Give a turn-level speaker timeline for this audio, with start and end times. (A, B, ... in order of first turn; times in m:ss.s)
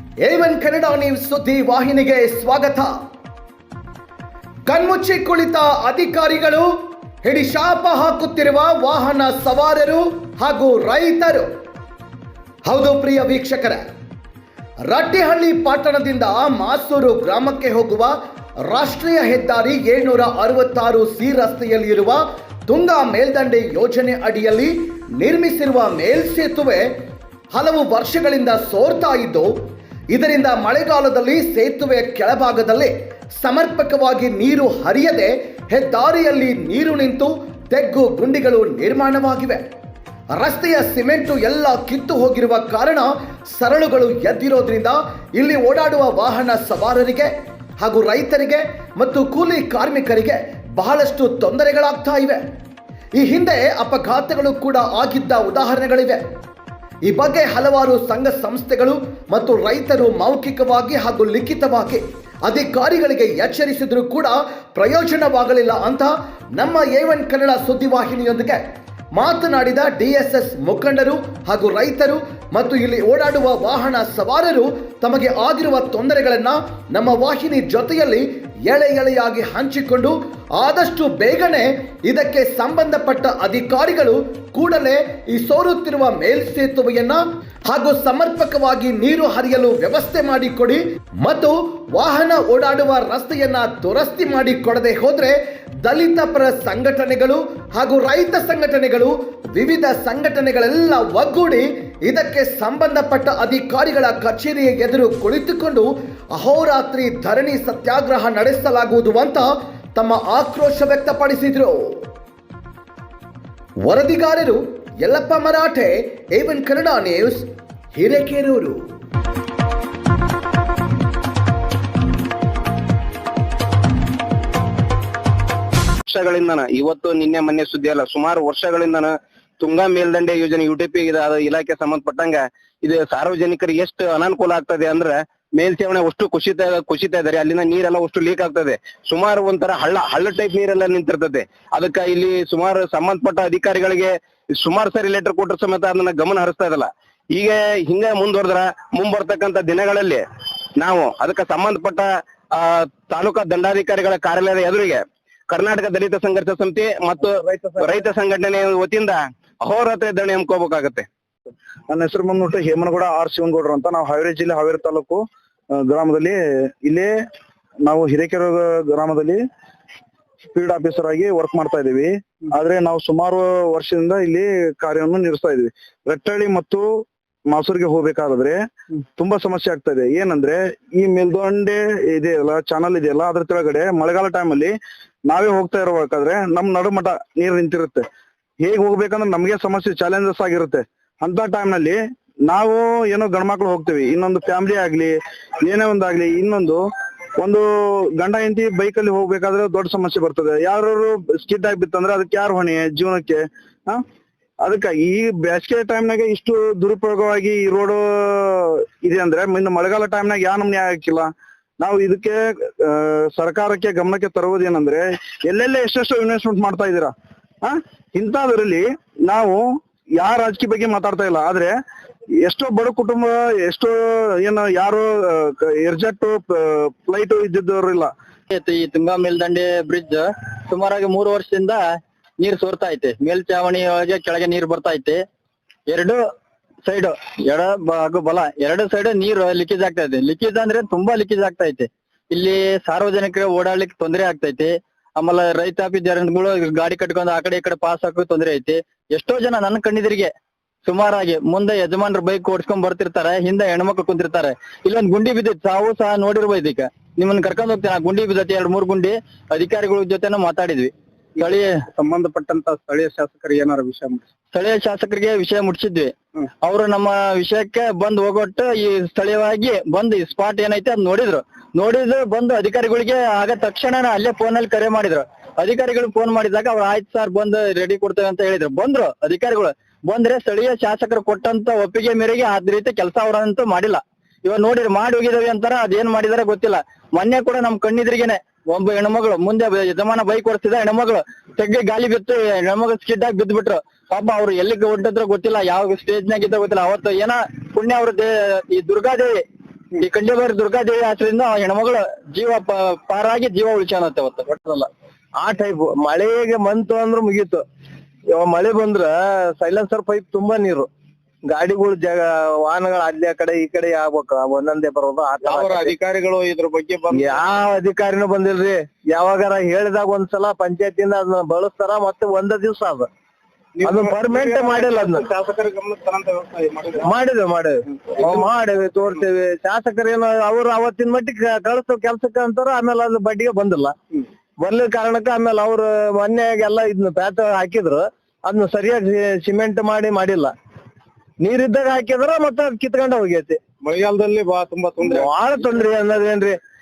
0:00.2-0:02.9 A
0:04.7-0:06.7 A
0:07.2-0:11.5 A
0:12.6-0:13.8 A
0:14.9-0:18.1 A
0:18.7-0:26.9 A
0:27.5-0:29.5 A
0:30.1-0:39.6 A
0:40.4-0:52.4 A
0:53.2-0:56.2 A
0:57.0-1:08.6 A
1:09.1-1:52.0 A
1:53.8-1:58.8 A
2:06.1-2:30.2 B
2:30.8-2:41.1 B
2:37.4-2:37.9 C
2:41.9-2:45.2 D
2:45.8-2:47.1 D
2:47.8-2:49.4 D
2:50.5-2:58.6 D
2:59.2-3:04.7 D
3:05.3-3:08.0 D
3:08.6-3:16.8 D
3:17.4-3:17.6 D
3:18.2-3:24.0 D
3:24.6-3:39.6 D
3:40.2-3:41.7 D
3:42.4-3:48.1 D
3:48.5-3:51.8 E
3:52.4-3:55.2 E
3:55.9-3:56.2 E
3:56.8-4:10.3 E
4:10.8-4:21.8 E
4:21.9-4:24.2 B
4:24.5-4:59.4 E
4:59.9-5:04.5 E
5:04.5-5:04.8 C
5:05.4-5:07.6 C
5:08.3-5:10.9 C
5:11.4-5:16.0 C
5:15.4-5:17.4 B
5:17.1-5:23.1 C
5:23.8-5:27.0 B
5:23.8-5:25.3 C
5:27.0-5:34.0 C
5:34.6-5:40.5 C
5:41.4-5:43.6 C
5:43.8-5:45.2 B
5:45.0-5:46.6 C